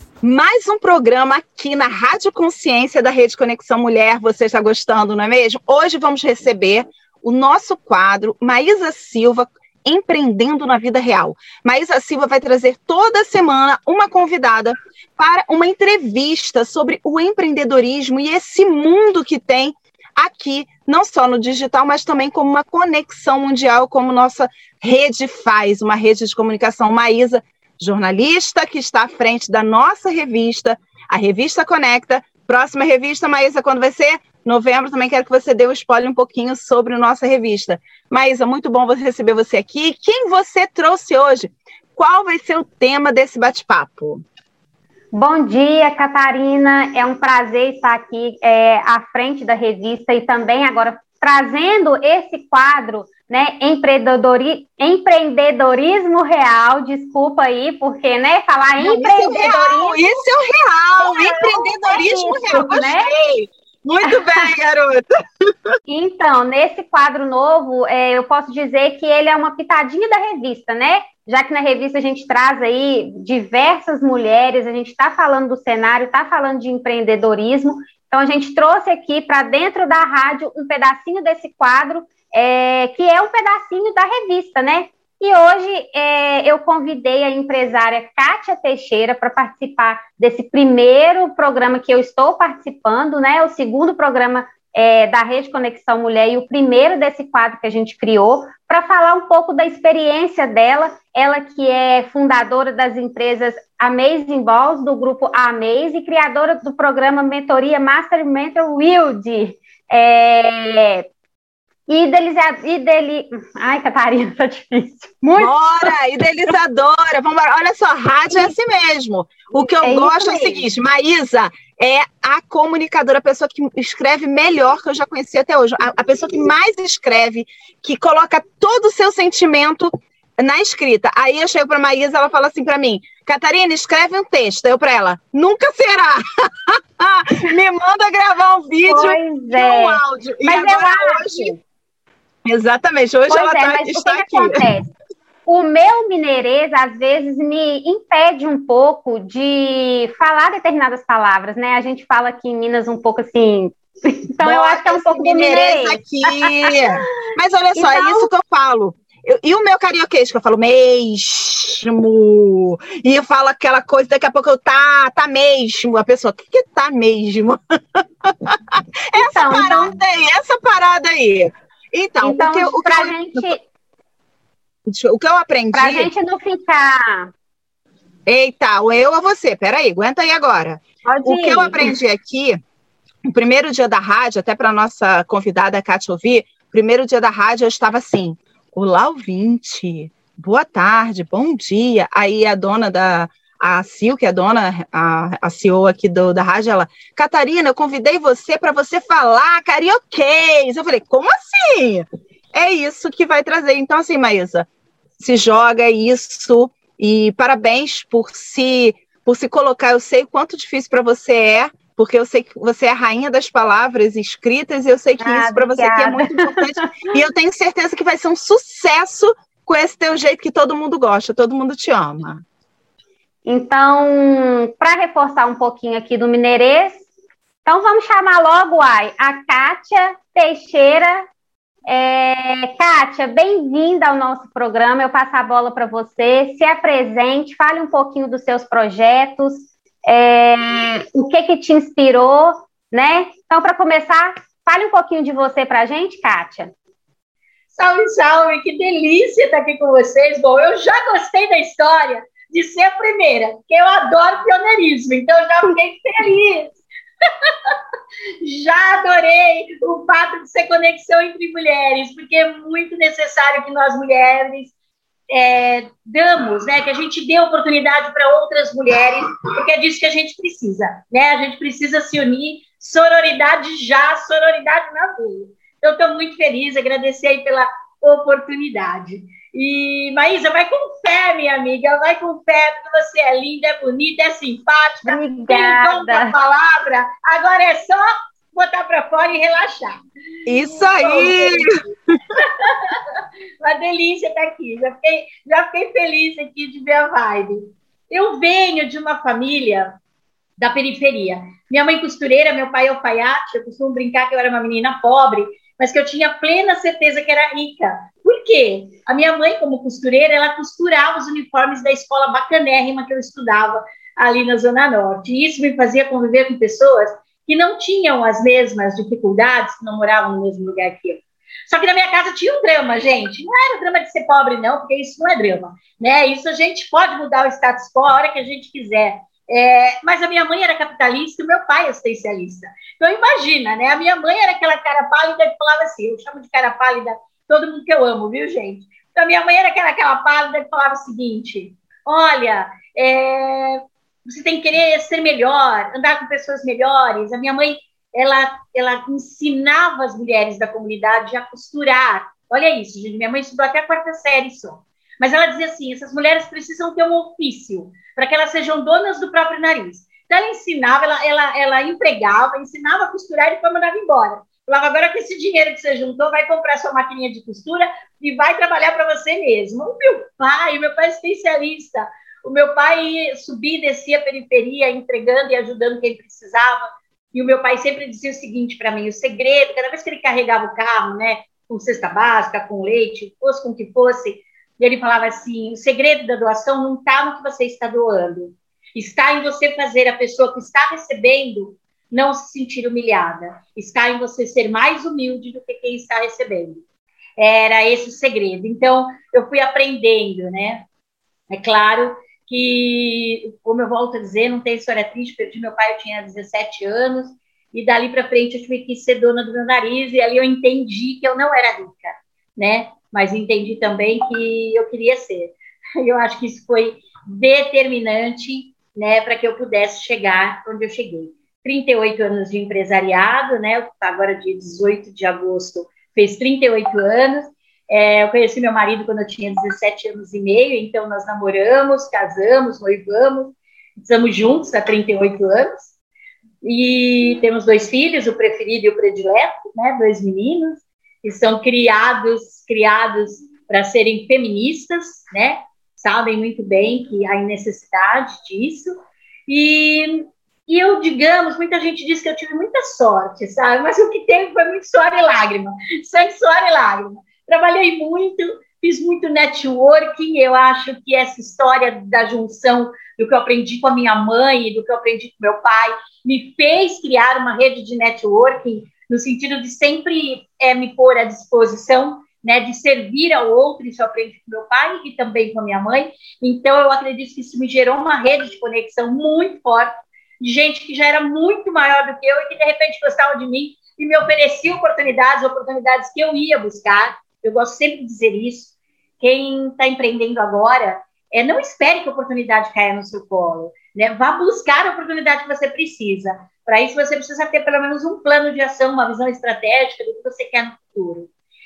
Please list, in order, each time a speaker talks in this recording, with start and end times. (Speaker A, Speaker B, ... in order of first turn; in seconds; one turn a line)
Speaker A: 0.2-44.2
Speaker B: 45.1-60.0
Speaker A: 58.8-65.5
Speaker B: 61.0-63.1
Speaker B: 64.0-64.4
Speaker B: 65.9-111.1
Speaker B: 111.9-115.9
Speaker A: 115.3-141.6
Speaker B: 119.6-120.6
Speaker B: 138.8-141.5
Speaker A: 142.4-144.7
Speaker B: 143.3-144.8
Speaker B: 145.4-157.0
Speaker A: 154.4-173.6
Speaker B: 157.7-158.3
Speaker B: 169.1-170.0
Speaker B: 172.2-173.6
Speaker A: 174.8-176.1
Speaker B: 175.7-177.3
Speaker A: 178.2-182.6
Speaker B: 181.0-181.9
Speaker A: 183.3-204.7
Speaker A: 205.2-222.4
Speaker B: 215.2-216.9
Speaker B: 223.4-227.0
Speaker B: 227.6-231.2
Speaker B: 231.9-246.7
Speaker C: 247.7-256.8
Speaker C: 258.4-264.7
Speaker C: 265.3-290.0
Speaker B: 285.0-286.4
Speaker A: 290.4-291.8
Speaker C: 290.9-291.7
Speaker C: 293.6-299.9
Speaker C: 300.6-396.8
Speaker C: 397.4-400.8
Speaker C: 401.5-435.9
Speaker C: 436.6-501.3